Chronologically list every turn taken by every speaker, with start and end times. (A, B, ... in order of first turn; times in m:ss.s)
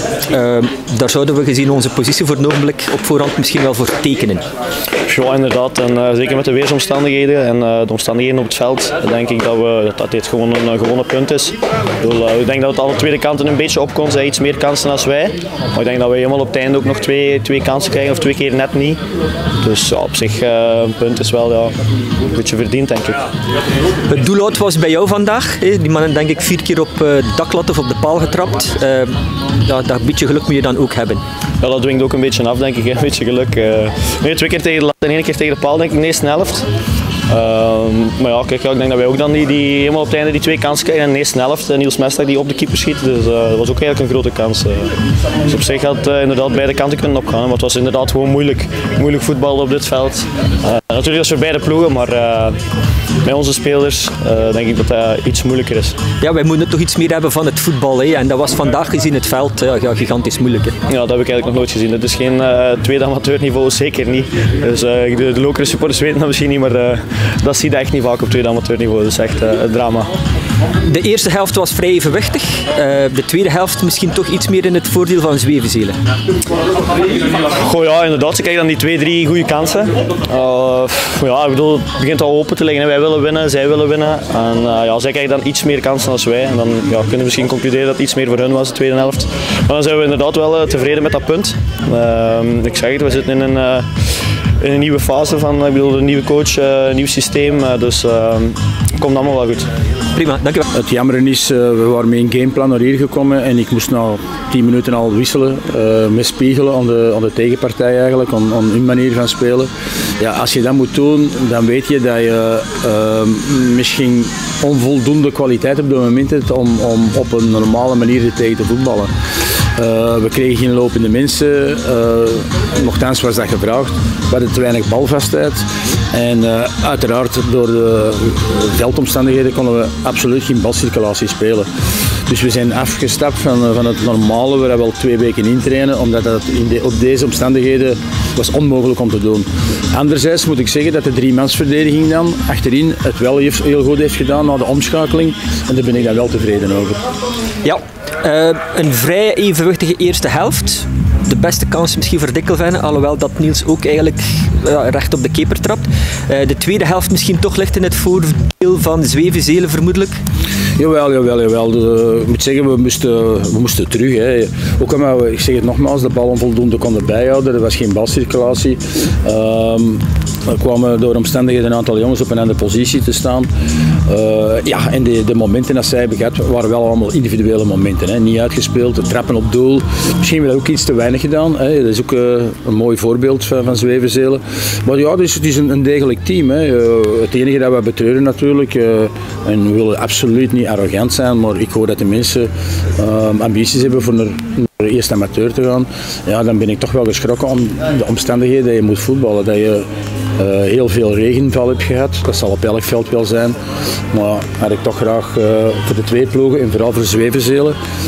0:00.3-0:04.4 A
0:05.1-0:19.0 B
0:19.6-0:21.8 B
0:22.3-0:23.3 B
0:24.1-0:31.2 A
0:31.6-0:36.6 B
0:37.3-0:44.9 B
0:45.5-0:52.6 B
0:53.2-0:56.0 B
0:56.2-1:00.8 A
1:00.9-1:10.1 B
1:10.8-1:16.0 A
1:17.4-1:33.9 B
1:34.6-1:39.7 B
1:40.1-1:40.6 A
1:40.7-1:49.7 C
1:50.2-1:59.1 C
1:59.8-2:11.7 C
2:12.3-2:27.0 C
2:27.6-2:40.2 A
2:40.8-2:53.5 C
2:54.1-3:19.9 C
3:20.4-3:23.6 C
3:24.1-3:27.8 C